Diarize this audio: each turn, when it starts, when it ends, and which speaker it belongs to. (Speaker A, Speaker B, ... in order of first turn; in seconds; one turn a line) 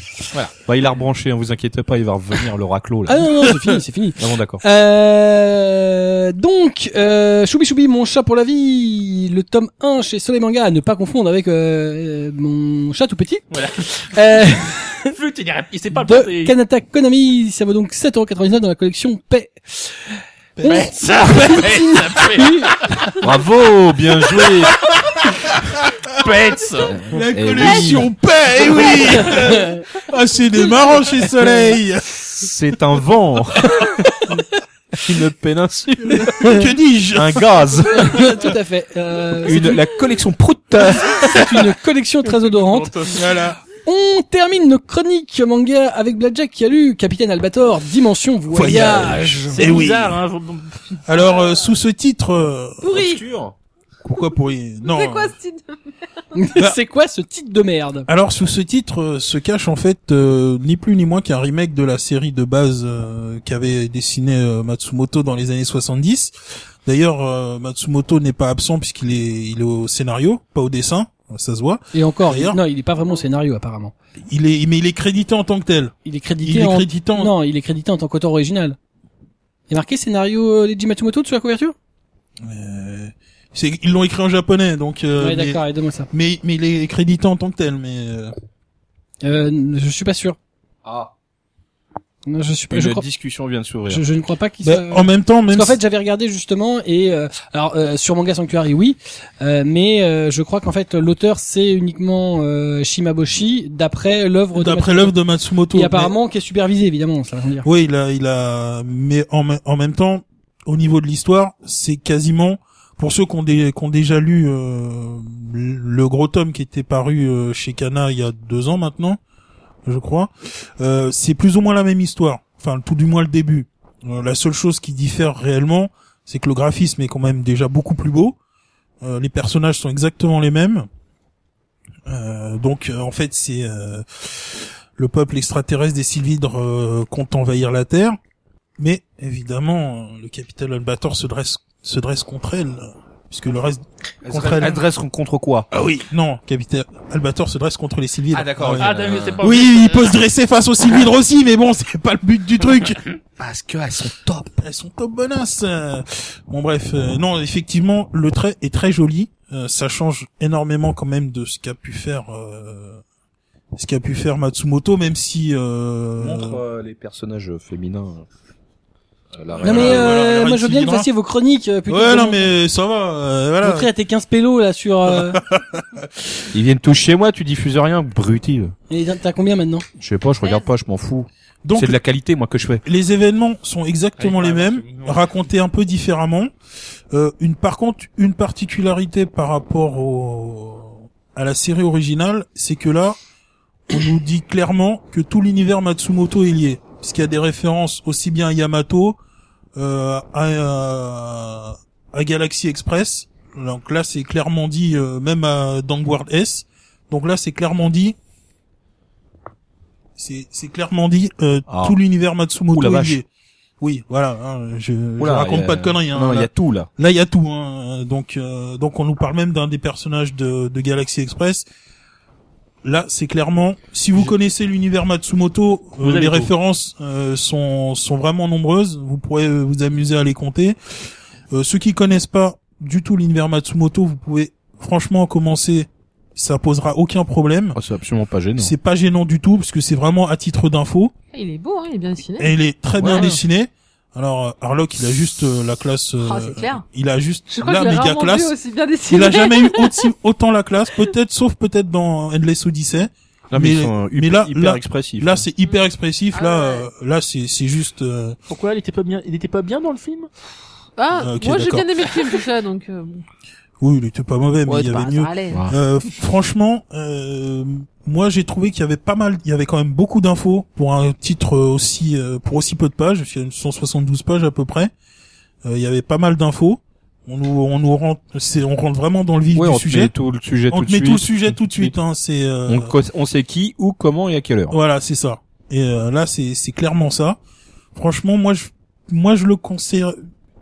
Speaker A: 0.6-3.3
Speaker B: 3.1-15.1
Speaker A: 4.2-4.6
Speaker C: 13.5-16.6
Speaker B: 15.9-23.2
Speaker D: 20.6-20.9
Speaker C: 20.6-23.1
Speaker A: 23.2-24.8
Speaker D: 25.1-26.3
Speaker C: 26.2-26.9
Speaker A: 26.9-28.1
Speaker D: 27.1-32.5
Speaker E: 27.6-27.9
Speaker B: 29.0-29.9
Speaker A: 32.3-33.9
Speaker B: 33.7-34.4
Speaker A: 35.0-38.3
Speaker D: 36.1-37.6
Speaker B: 37.9-39.8
Speaker A: 39.4-41.6
Speaker B: 41.0-43.1
Speaker C: 42.6-43.2
Speaker D: 43.1-43.6
Speaker B: 43.7-49.8
Speaker D: 48.5-50.2
Speaker C: 49.5-51.0
Speaker D: 51.0-52.9
Speaker E: 51.1-51.7
Speaker A: 52.8-53.5
Speaker E: 52.8-53.2
Speaker D: 54.0-55.3
Speaker E: 54.8-55.8
Speaker B: 56.3-58.1
Speaker D: 58.1-66.3
Speaker D: 66.8-72.6
Speaker B: 71.9-73.9
Speaker D: 74.3-77.3
Speaker B: 76.0-78.8
Speaker B: 79.7-81.7
Speaker D: 82.4-88.3
Speaker B: 85.2-86.1
Speaker B: 89.2-90.4
Speaker A: 90.8-91.1
Speaker B: 92.2-93.0
Speaker A: 92.7-94.0
Speaker B: 93.9-105.1
Speaker D: 94.6-95.8
Speaker D: 104.5-106.1
Speaker B: 105.7-107.7
Speaker D: 107.6-119.2
Speaker D: 119.8-128.4
Speaker D: 129.0-130.9
Speaker D: 132.1-138.2
Speaker D: 138.8-144.8
Speaker A: 144.2-145.7
Speaker D: 145.7-153.0
Speaker A: 148.3-149.5
Speaker C: 148.8-150.2
Speaker A: 153.4-154.5
Speaker D: 154.6-163.0
Speaker D: 163.7-166.6
Speaker A: 166.2-168.2
Speaker A: 169.3-170.1
Speaker D: 169.6-171.1
Speaker B: 169.6-172.5
Speaker D: 171.9-173.9
Speaker B: 173.6-175.4
Speaker D: 175.1-176.1
Speaker A: 176.5-178.7
Speaker B: 178.9-179.8
Speaker A: 180.0-182.8
Speaker D: 181.6-182.0
Speaker D: 182.8-186.5
Speaker C: 184.2-185.3
Speaker D: 187.1-193.2
Speaker D: 193.9-199.2
Speaker D: 199.8-208.2
Speaker D: 210.2-213.3
Speaker A: 211.7-211.9
Speaker A: 212.7-213.2
Speaker D: 213.8-221.7
Speaker A: 215.2-216.9
Speaker D: 222.8-230.8
Speaker C: 226.0-226.5
Speaker D: 231.5-237.8
Speaker A: 237.7-238.7
Speaker D: 238.6-241.1
Speaker E: 241.3-242.5
Speaker D: 242.4-248.5
Speaker A: 243.0-243.4
Speaker E: 243.1-243.3
Speaker E: 246.2-246.8
Speaker E: 247.5-250.1
Speaker D: 249.1-258.4
Speaker A: 253.5-255.4
Speaker E: 256.3-256.9
Speaker C: 258.5-260.3
Speaker E: 261.0-263.2
Speaker D: 261.1-261.9
Speaker D: 263.8-274.9
Speaker E: 264.6-265.7
Speaker A: 265.5-265.8
Speaker D: 275.6-280.1
Speaker A: 279.5-281.9
Speaker D: 280.7-282.9
Speaker A: 282.6-284.8
Speaker D: 284.7-287.4
Speaker D: 287.9-290.2